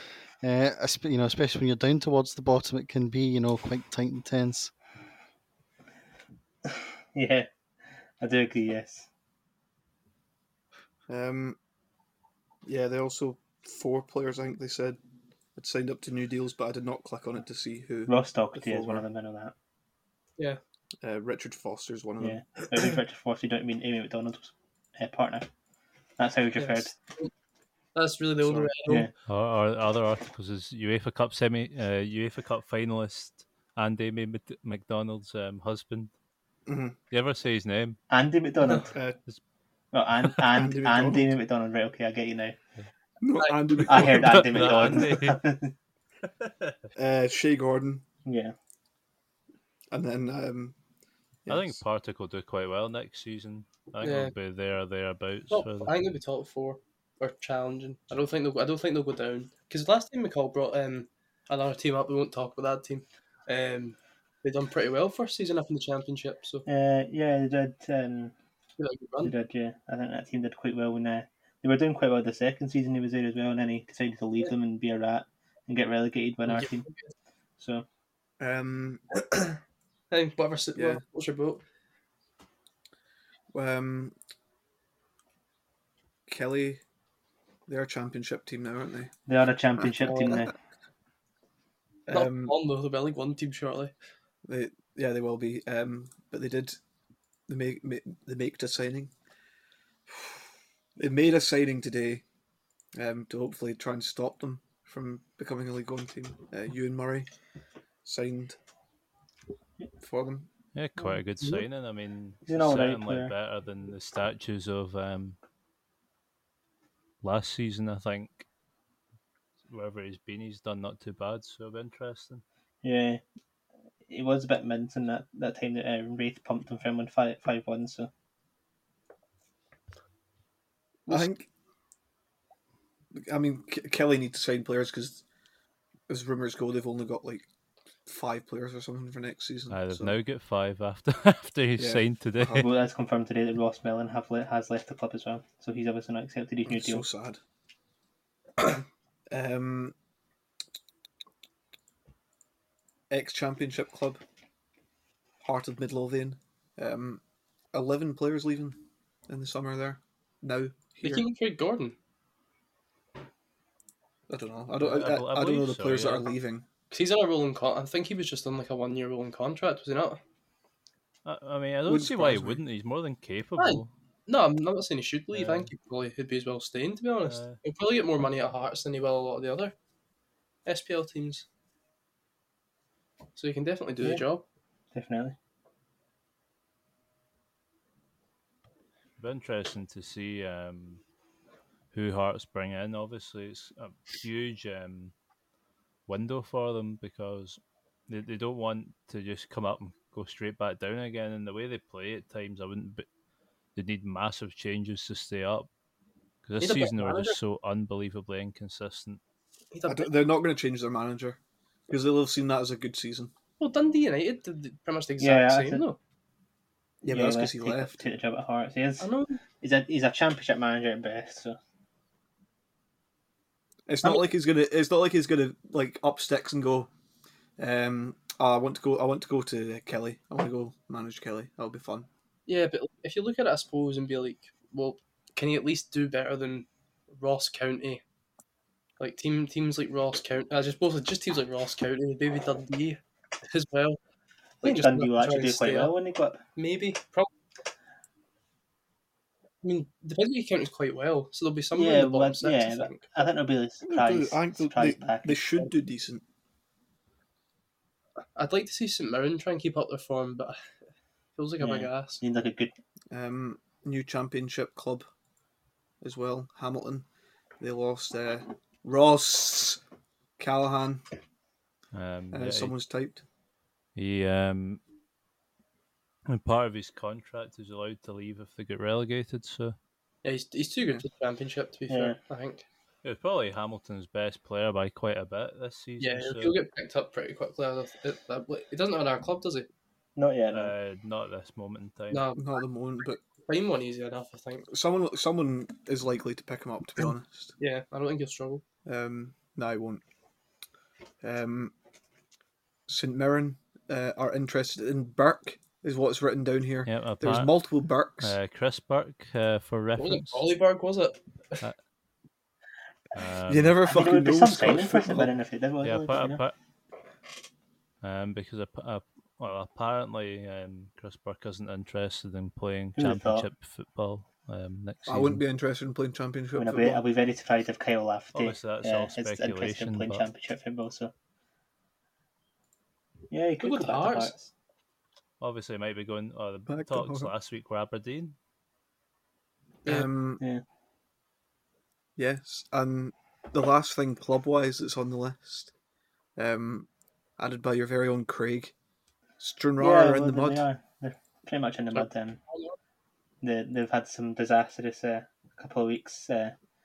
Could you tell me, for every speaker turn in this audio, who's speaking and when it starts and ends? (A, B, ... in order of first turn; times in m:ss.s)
0:00.4-0:04.7 A
0:07.1-0:07.5 B
0:08.2-0:09.1 B
0:11.1-0:11.6 C
0:12.6-0:15.0 C
0:15.6-0:19.1 C
0:18.1-0:19.5 B
0:21.0-0:22.4 C
0:22.2-0:25.5 B
0:26.2-0:27.0 B
0:26.6-0:27.3 D
0:28.0-0:29.1 D
0:28.4-0:28.7 C
0:28.9-0:29.1 B
0:29.2-0:36.1 E
0:36.7-0:37.0 C
0:37.1-0:38.0 E
0:38.1-0:39.0 B
0:38.9-0:39.2 C
0:39.9-0:42.6 B
0:40.5-0:41.3 C
0:43.2-0:45.1 C
0:43.4-0:43.7 D
0:43.8-0:45.7 B
0:43.9-0:45.4 E
0:46.3-0:46.8 E
0:47.0-0:48.0 C
0:48.3-0:48.5 B
0:49.9-0:50.8 C
0:51.4-0:51.8 C
0:51.5-0:55.9 E
0:54.0-0:54.3 D
0:55.5-1:06.6 D
1:06.7-1:08.3 B
1:08.8-1:09.3 D
1:09.2-1:16.9 B
1:16.5-1:17.1 D
1:17.6-1:17.8 B
1:18.4-1:19.0 C
1:20.1-1:21.6 D
1:20.8-1:21.0 C
1:23.5-1:24.2 C
1:26.3-1:26.8 C
1:27.7-1:29.1 C
1:29.3-1:30.5 B
1:29.8-1:30.5 C
1:32.1-1:32.6 C
1:32.1-1:33.9 D
1:34.5-1:36.8 C
1:37.5-1:39.1 C
1:40.1-1:40.4 C
1:41.0-1:42.2 C
1:43.0-1:47.3 C
1:48.0-1:48.6 C
1:50.0-1:50.5 C
1:50.8-1:55.4 E
1:51.0-1:51.6 D
1:52.5-1:53.3 B
1:57.2-1:58.5 E
1:59.7-2:02.4 E
2:02.8-2:03.2 B
2:04.1-2:08.1 B
2:11.1-2:11.5 C
2:13.2-2:15.2 C
2:16.1-2:17.5 C
2:18.1-2:20.2 C
2:19.7-2:22.7 E
2:21.8-2:22.7 C
2:22.6-2:27.0 B
2:26.7-2:27.4 C
2:28.6-2:30.0 C
2:33.1-2:34.2 C
2:35.4-2:37.2 C
2:37.7-2:41.3 C
2:41.0-2:42.0 D
2:44.3-2:46.7 C
2:44.8-2:46.3 E
2:46.9-2:50.2 D
2:51.2-2:53.9 E
2:51.9-2:52.6 C
2:53.6-2:59.8 D
2:55.3-2:55.7 E
2:57.3-2:57.6 E
3:00.6-3:01.5 D
3:03.4-3:04.4 D
3:04.0-3:04.2 B
3:04.9-3:05.4 B
3:09.2-3:11.0 E
3:11.9-3:15.1 E
3:16.1-3:23.1 E
3:23.8-3:25.7 E
3:26.5-3:29.2 E
3:26.6-3:27.4 D
3:29.7-3:30.1 D
3:29.8-3:33.3 C
3:33.6-3:36.0 D
3:35.2-3:35.8 B
3:37.0-3:38.0 C
3:37.1-3:41.6 B
3:39.0-3:39.4 D
3:43.9-3:46.9 C
3:47.6-3:52.1 C
3:52.5-3:58.0 D
3:59.0-4:04.0 D
4:04.6-4:05.9 D
4:04.6-4:06.4 B
4:06.6-4:07.3 D
4:09.6-4:13.3 D
4:11.8-4:15.4 B
4:13.8-4:16.2 C
4:18.4-4:20.7 D
4:21.4-4:22.2 D
4:21.6-4:22.8 B
4:23.1-4:25.1 C
4:26.0-4:27.1 C
4:27.6-4:29.8 C
4:30.4-4:31.0 C
4:31.9-4:32.8 E
4:32.3-4:33.2 C
4:34.0-4:34.8 E
4:36.3-4:39.8 E
4:40.2-4:42.6 D
4:41.9-4:42.2 B
4:43.0-4:46.5 E
4:46.0-4:49.7 D
4:50.2-4:50.7 B
4:50.5-4:52.3 E
4:52.1-4:52.5 D
4:52.4-4:53.2 C
4:53.4-4:54.7 D
4:54.7-4:57.6 C
4:57.6-4:58.6 D
4:58.9-5:00.0 C
5:01.2-5:01.7 C
5:02.9-5:08.4 C
5:06.9-5:07.6 E
5:08.2-5:10.4 E
5:10.0-5:11.7 D
5:13.2-5:13.8 E
5:13.5-5:15.3 C
5:13.8-5:16.4 B
5:15.8-5:16.6 E
5:18.0-5:25.4 E
5:23.0-5:23.5 B
5:25.1-5:27.0 C
5:26.6-5:31.1 B
5:28.3-5:30.3 E
5:33.3-5:34.5 B
5:33.6-5:34.3 D
5:35.4-5:38.4 E
5:36.7-5:37.3 C
5:39.9-5:40.4 C
5:42.2-5:45.7 C
5:46.4-5:48.7 C
5:49.4-5:50.7 C
5:49.8-5:52.4 B
5:51.9-5:52.8 D
5:53.4-5:56.6 B